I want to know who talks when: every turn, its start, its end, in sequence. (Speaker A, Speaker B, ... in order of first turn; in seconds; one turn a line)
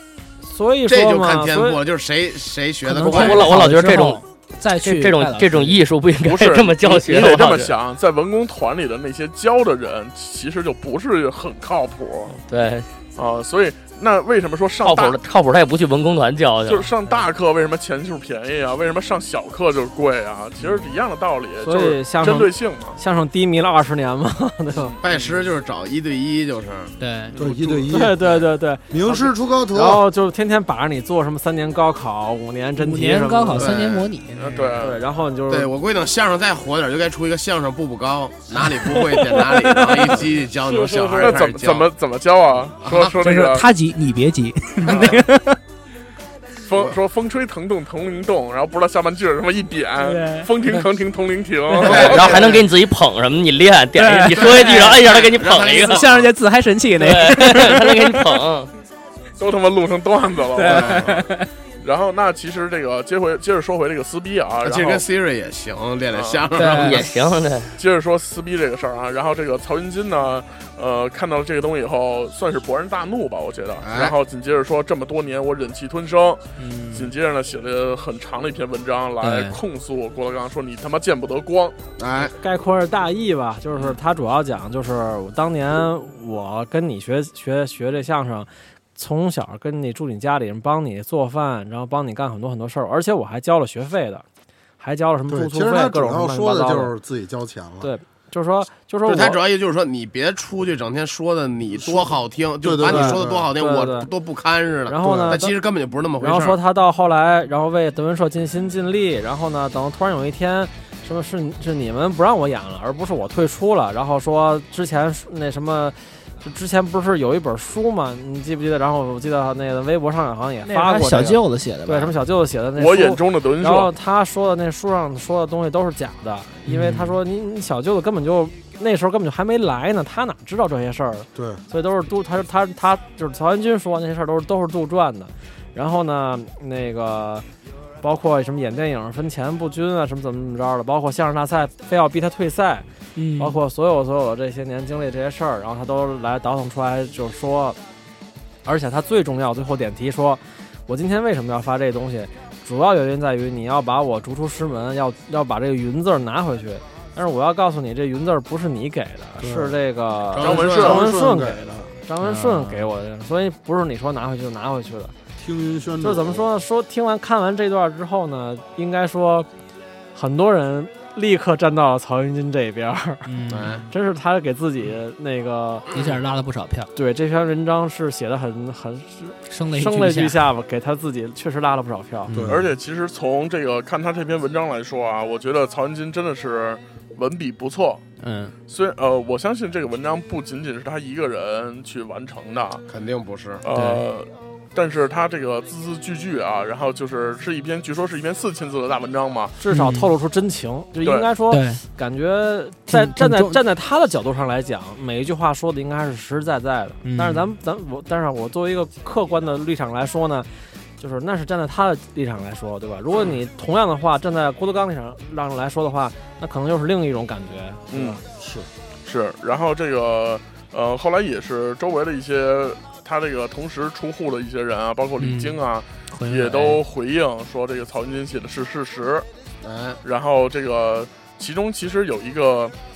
Speaker A: 0.4-1.8
Speaker B: 0.9-3.5
Speaker C: 2.9-5.8
Speaker D: 3.0-4.2
Speaker D: 4.8-7.7
Speaker E: 6.2-12.4
Speaker D: 12.4-12.9
Speaker E: 13.2-15.2
Speaker D: 14.8-16.9
Speaker E: 16.6-23.0
Speaker A: 21.6-24.9
Speaker E: 24.8-25.0
Speaker B: 25.0-28.4
Speaker C: 27.0-27.4
Speaker F: 27.4-28.1
Speaker A: 27.9-33.8
Speaker F: 28.9-30.0
Speaker C: 32.8-34.8
Speaker B: 33.5-34.1
Speaker E: 34.4-35.0
Speaker A: 34.8-35.7
Speaker B: 35.5-41.9
Speaker C: 38.7-40.2
Speaker A: 39.8-41.5
Speaker E: 41.2-43.7
Speaker B: 42.8-43.1
Speaker C: 43.2-45.6
Speaker B: 44.9-45.2
Speaker E: 46.6-52.5
Speaker B: 46.7-47.0
Speaker C: 50.0-50.8
Speaker C: 51.8-52.1
Speaker B: 51.8-52.6
Speaker D: 51.9-56.1
Speaker C: 54.0-55.0
Speaker B: 54.3-56.3
Speaker C: 55.8-58.4
Speaker D: 56.9-58.7
Speaker E: 59.4-61.2
Speaker C: 60.5-61.5
Speaker B: 60.6-61.2
Speaker E: 61.8-65.0
Speaker B: 64.6-66.9
Speaker E: 66.1-67.1
Speaker C: 66.5-67.1
Speaker D: 66.7-67.8
Speaker E: 67.8-81.8
Speaker B: 73.8-74.1
Speaker C: 76.6-77.1
Speaker C: 79.2-79.6
Speaker B: 82.0-82.3
Speaker A: 82.4-94.2
Speaker A: 94.8-96.9
Speaker F: 95.3-97.9
Speaker A: 97.8-99.4
Speaker B: 99.0-106.6
Speaker F: 101.7-103.5
Speaker A: 102.8-104.1
Speaker A: 104.9-105.5
Speaker F: 105.0-105.5
Speaker A: 106.2-137.4
Speaker C: 120.6-122.1
Speaker E: 122.8-123.9
Speaker C: 126.7-127.2
Speaker F: 131.3-131.6
Speaker A: 138.0-142.8
Speaker C: 143.2-143.6
Speaker A: 143.4-147.8
Speaker A: 148.6-165.1
Speaker F: 159.4-159.8
Speaker B: 160.3-161.0
Speaker E: 160.4-161.0
Speaker F: 160.8-161.9
Speaker C: 162.2-162.8
Speaker F: 165.4-166.5
Speaker A: 166.0-169.5
Speaker A: 170.1-173.4
Speaker C: 173.2-173.8
Speaker B: 173.5-173.8
Speaker A: 173.9-175.9
Speaker C: 175.9-176.9
Speaker A: 176.9-182.3
Speaker C: 179.5-180.4
Speaker C: 182.3-182.6
Speaker F: 182.3-182.7
Speaker E: 182.5-188.0
Speaker C: 188.2-188.5
Speaker E: 188.7-192.8
Speaker B: 192.9-193.6
Speaker E: 193.6-199.6
Speaker C: 193.7-194.0
Speaker A: 199.6-210.5
Speaker C: 199.7-200.1
Speaker C: 201.5-201.8
Speaker C: 202.9-203.6
Speaker C: 207.0-207.5
Speaker A: 211.0-218.2
Speaker E: 217.9-218.2
Speaker F: 218.4-218.7
Speaker E: 219.0-229.2
Speaker C: 225.2-225.6
Speaker C: 226.1-226.8
Speaker B: 229.6-230.0
Speaker E: 230.0-232.7